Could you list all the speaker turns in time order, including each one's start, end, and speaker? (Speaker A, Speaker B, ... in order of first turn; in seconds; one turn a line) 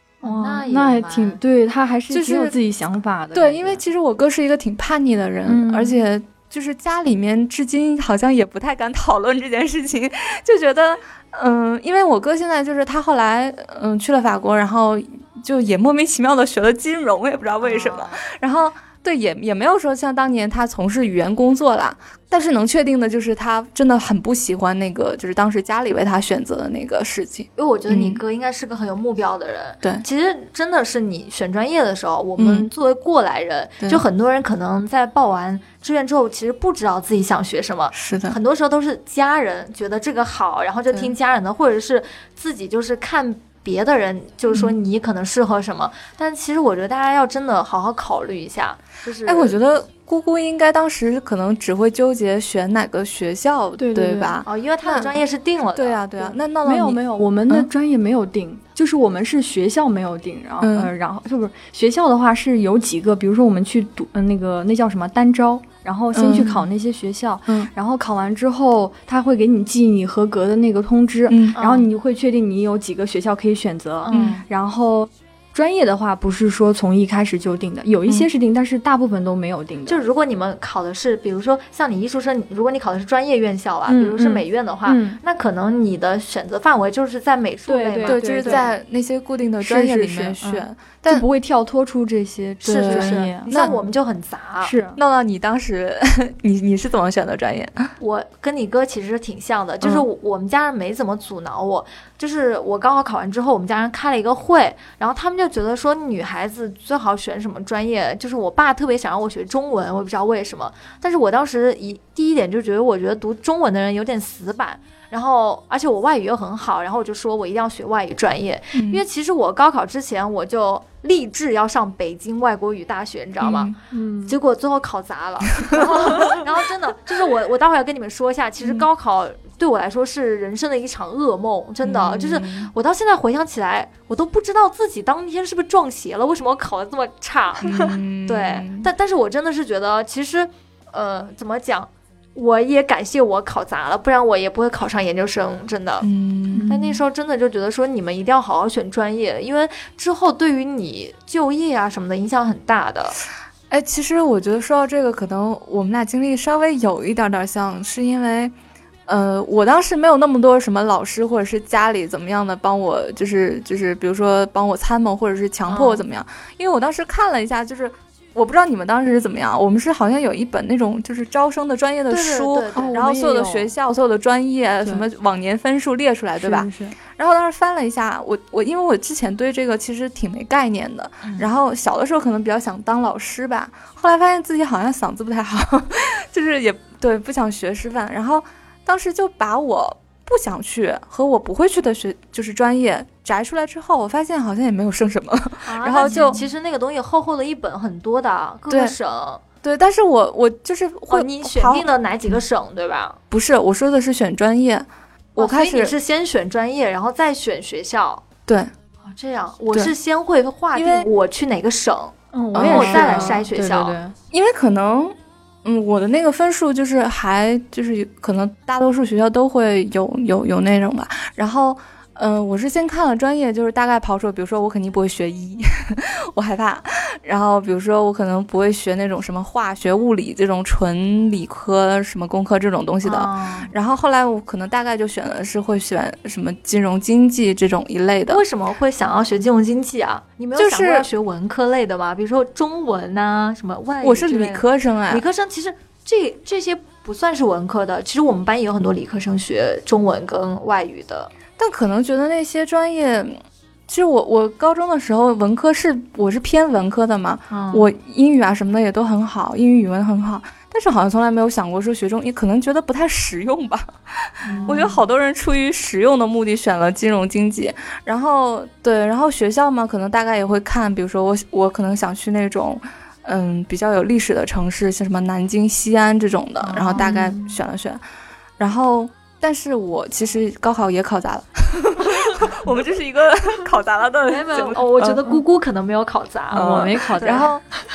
Speaker A: 0.2-1.4
Speaker B: 0.2-3.8
Speaker C: 2.1-2.5
Speaker C: 3.3-28.2
Speaker B: 5.5-6.0
Speaker A: 17.6-18.2
Speaker A: 27.6-49.6
Speaker C: 32.4-32.7
Speaker C: 37.9-38.4
Speaker C: 49.2-55.2
Speaker B: 53.8-54.4
Speaker A: 54.5-56.4
Speaker C: 55.8-57.7
Speaker B: 56.6-80.0
Speaker C: 60.6-60.9
Speaker C: 66.1-66.7
Speaker C: 71.3-71.6
Speaker A: 71.5-71.9
Speaker A: 74.0-74.4
Speaker C: 74.1-74.4
Speaker A: 79.9-88.7
Speaker B: 83.9-85.2
Speaker B: 87.7-88.7
Speaker C: 88.1-91.2
Speaker B: 89.6-93.5
Speaker A: 92.6-94.7
Speaker C: 92.7-93.8
Speaker B: 94.6-95.0
Speaker C: 95.0-97.9
Speaker A: 98.0-123.7
Speaker C: 118.7-119.0
Speaker C: 123.4-123.8
Speaker B: 123.9-124.3
Speaker A: 124.3-146.1
Speaker C: 131.8-132.7
Speaker C: 137.6-138.9
Speaker C: 146.0-146.7
Speaker B: 146.5-147.0
Speaker A: 146.7-153.2
Speaker C: 153.7-158.5
Speaker C: 159.1-196.4
Speaker A: 165.7-166.1
Speaker A: 172.1-173.0
Speaker B: 172.8-173.7
Speaker B: 174.8-175.1
Speaker B: 176.4-177.0
Speaker A: 181.2-181.5
Speaker A: 195.7-199.4
Speaker B: 196.1-196.4
Speaker C: 198.7-198.9
Speaker C: 199.6-201.9
Speaker A: 201.1-203.2
Speaker C: 203.3-205.9
Speaker A: 205.4-208.2
Speaker C: 208.5-208.7
Speaker A: 209.0-214.0
Speaker C: 210.7-211.1
Speaker B: 212.3-214.2
Speaker C: 212.5-213.4
Speaker C: 214.3-238.4
Speaker A: 233.0-233.7
Speaker A: 238.3-251.3
Speaker C: 240.6-241.1
Speaker C: 244.0-245.2
Speaker C: 251.6-278.0
Speaker A: 257.5-257.9
Speaker A: 264.4-265.0
Speaker B: 264.5-264.8
Speaker A: 276.6-277.6
Speaker C: 278.6-285.2
Speaker A: 284.3-287.5
Speaker C: 286.5-287.6
Speaker B: 286.6-287.5